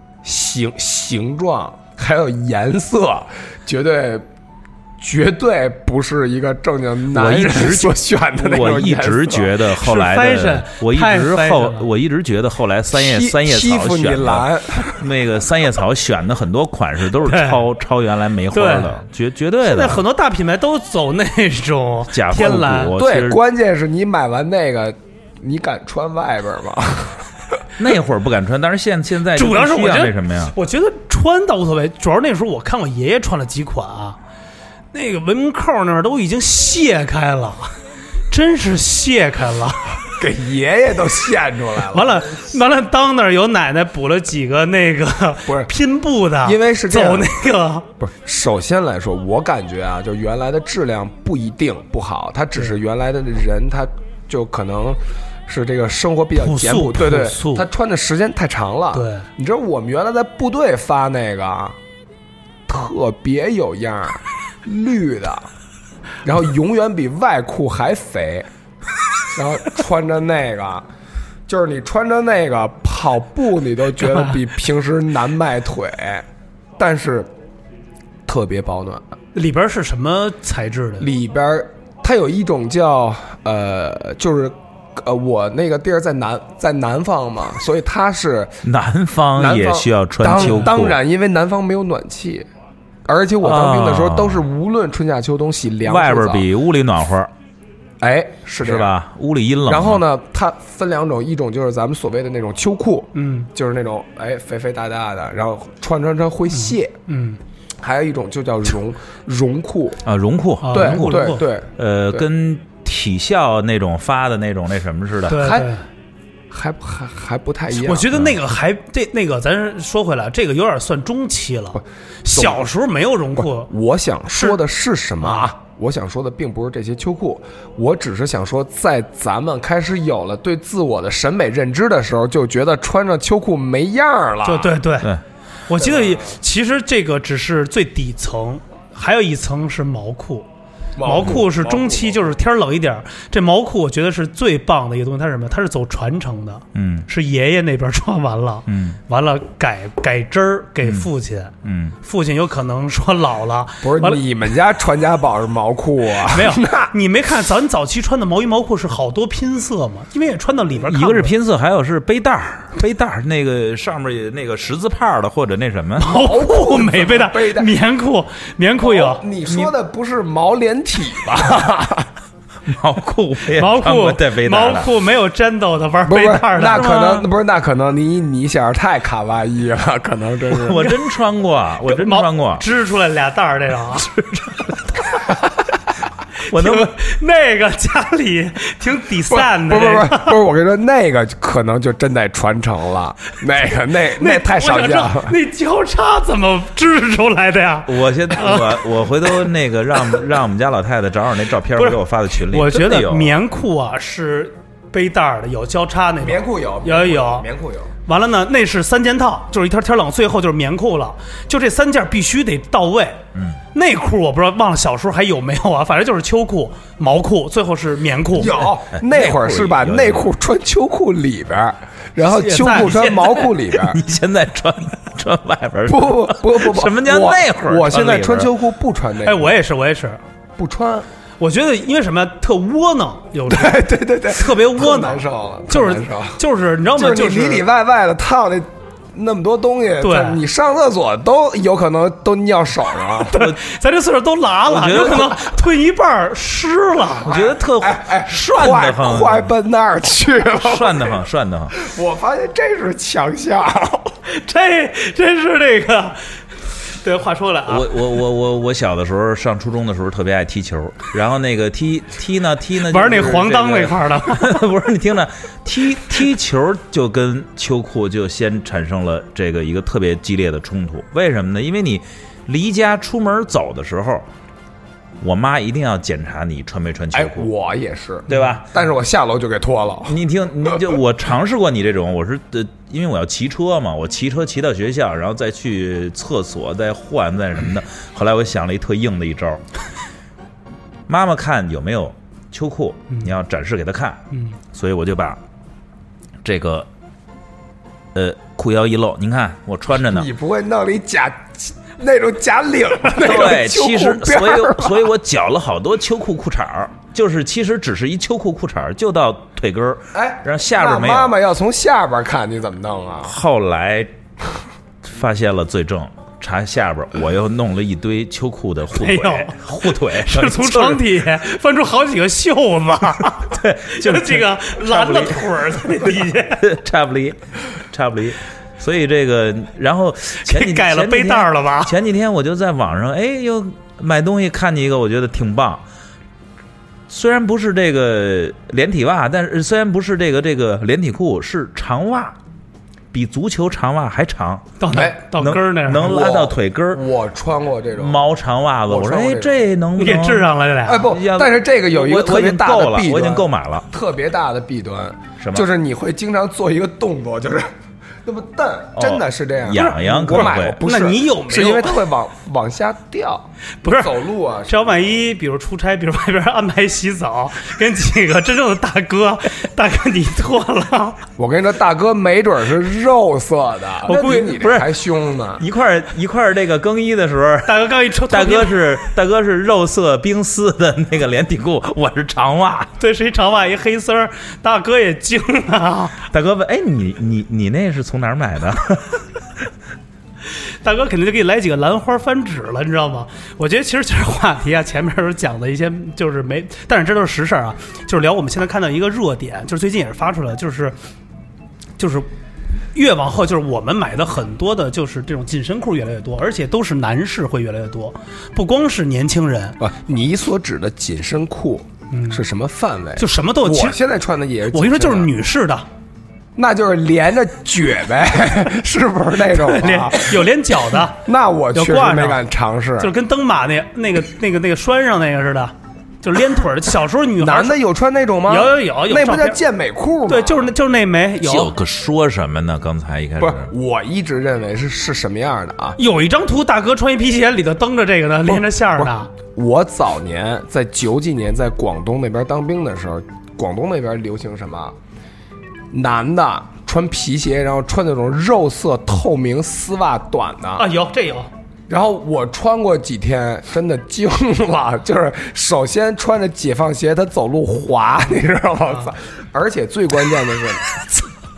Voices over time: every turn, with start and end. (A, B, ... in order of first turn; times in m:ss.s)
0:00.2-0:04.3 A
0:05.0-0:09.6 A
0:07.1-0:20.0 B
0:09.8-0:11.9 C
0:12.9-0:15.0 A
0:17.2-0:17.6 C
0:18.5-0:19.0 C
0:19.6-0:23.0 C
0:22.1-0:23.4 B
0:23.0-0:27.6 A
0:27.8-0:30.5 B
0:29.3-0:34.2 C
0:34.9-0:37.8 C
0:38.3-0:40.0 C
0:40.1-0:42.2 A
0:41.9-0:47.9 C
0:45.5-0:45.7 A
0:46.4-0:47.3 A
0:48.0-1:01.8 A
0:56.4-0:57.7 C
0:58.9-0:59.3 C
1:02.7-1:05.5 A
1:06.2-1:08.5 A
1:09.3-1:10.9 A
1:11.5-1:16.2 A
1:16.8-1:17.3 A
1:18.3-1:19.0 A
1:19.4-1:21.1 C
1:21.0-1:28.6 A
1:28.6-1:31.0 B
1:29.4-1:32.5 A
1:30.4-1:30.7 C
1:33.1-1:36.5 A
1:33.4-1:34.4 B
1:35.8-1:37.3 B
1:38.0-1:38.9 A
1:38.6-1:40.0 B
1:39.7-1:47.0 A
1:43.2-1:43.5 C
1:46.6-1:47.4 C
1:47.8-1:50.0 A
1:50.0-1:55.6 B
1:50.6-1:51.4 C
1:50.7-1:52.2 A
1:55.3-1:55.8 C
1:55.4-1:55.7 A
1:56.5-1:58.1 A
1:57.8-2:03.7 C
1:58.1-1:58.4 B
2:01.8-2:02.6 A
2:03.4-2:14.8 A
2:05.2-2:05.5 C
2:14.4-2:15.1 C
2:15.7-2:20.5 C
2:15.8-2:16.4 A
2:21.0-2:22.3 A
2:21.0-2:34.2 C
2:26.8-2:27.1 B
2:28.7-2:29.0 B
2:31.6-2:32.0 B
2:33.8-2:36.9 A
2:36.3-2:41.3 C
2:40.9-2:46.1 B
2:46.0-2:49.2 C
2:46.1-2:47.7 A
2:48.8-2:52.1 A
2:49.5-2:49.7 B
2:52.7-2:54.9 B
2:53.6-2:57.2 C
2:56.1-3:01.0 A
2:56.7-2:57.2 B
3:00.5-3:02.6 B
3:01.9-3:04.1 C
3:04.0-3:05.4 B
3:06.5-3:10.4 C
3:06.5-3:06.9 B
3:09.3-3:15.4 A
3:14.2-3:18.8 C
3:17.9-3:23.4 B
3:21.8-3:27.5 C
3:26.2-3:27.9 A
3:28.1-3:33.2 C
3:33.7-3:38.7 C
3:38.3-3:44.0 A
3:39.0-3:40.3 B
3:42.2-3:43.5 C
3:43.7-3:48.5 B
3:45.9-3:49.5 A
3:49.2-3:50.2 C
3:50.6-3:51.1 A
3:51.4-3:57.6 C
3:53.5-3:56.4 A
3:56.9-4:03.5 A
4:00.0-4:00.4 C
4:03.3-4:07.4 C
4:03.3-4:03.6 B
4:04.7-4:05.4 B
4:07.2-4:09.5 B
4:07.3-4:14.2 A
4:10.5-4:11.8 B
4:14.3-4:17.9 C
4:17.7-4:34.3 B
4:22.9-4:24.6 C
4:35.2-4:37.5 B
4:37.1-4:41.0 A
4:38.3-4:38.7 B
4:40.1-4:49.6 B
4:51.1-4:54.2 B
4:54.3-4:54.6 C
4:54.7-4:55.4 B
4:56.4-4:56.9 B
4:58.1-5:00.3 B
4:59.9-5:05.1 A
5:03.2-5:11.3 B
5:10.1-5:13.4 A
5:13.2-5:14.1 B
5:15.0-5:21.0 B
5:19.0-5:26.6 C
5:23.4-5:35.8 B
5:30.4-5:31.9 C
5:37.1-5:42.4 B
5:43.1-5:47.0 B
5:44.8-5:46.2 C
5:44.9-5:45.2 A
5:46.0-5:48.2 A
5:48.0-5:53.9 B
5:48.9-5:49.6 A
5:50.0-5:51.1 C
5:50.9-5:57.7 A
5:55.4-5:55.7 B
5:58.2-6:05.1 A
5:59.0-6:00.8 B
5:59.7-6:02.1 C
6:03.8-6:04.1 C
6:04.7-6:11.2 C
6:11.4-6:15.6 A
6:14.1-6:14.5 C
6:14.1-6:14.9 B
6:15.6-6:22.9 B
6:17.7-6:18.8 C
6:23.0-6:26.2 C
6:26.3-6:29.3 B
6:30.6-6:41.0 C
6:42.0-6:42.3 C
6:42.9-6:49.8 C
6:49.8-6:55.3 A
6:52.1-6:52.4 C
6:53.2-6:54.0 C
6:54.7-6:55.9 C
6:56.6-7:00.5 A
6:59.5-7:02.4 C
7:01.0-7:03.1 A
7:03.0-7:07.8 C
7:07.4-7:10.7 A
7:08.5-7:09.6 C
7:10.3-7:11.8 C
7:11.4-7:13.7 B
7:13.4-7:16.0 A
7:16.0-7:19.3 C
7:18.5-7:25.0 A
7:25.9-7:30.9 A
7:30.8-7:31.5 C
7:31.9-7:41.1 A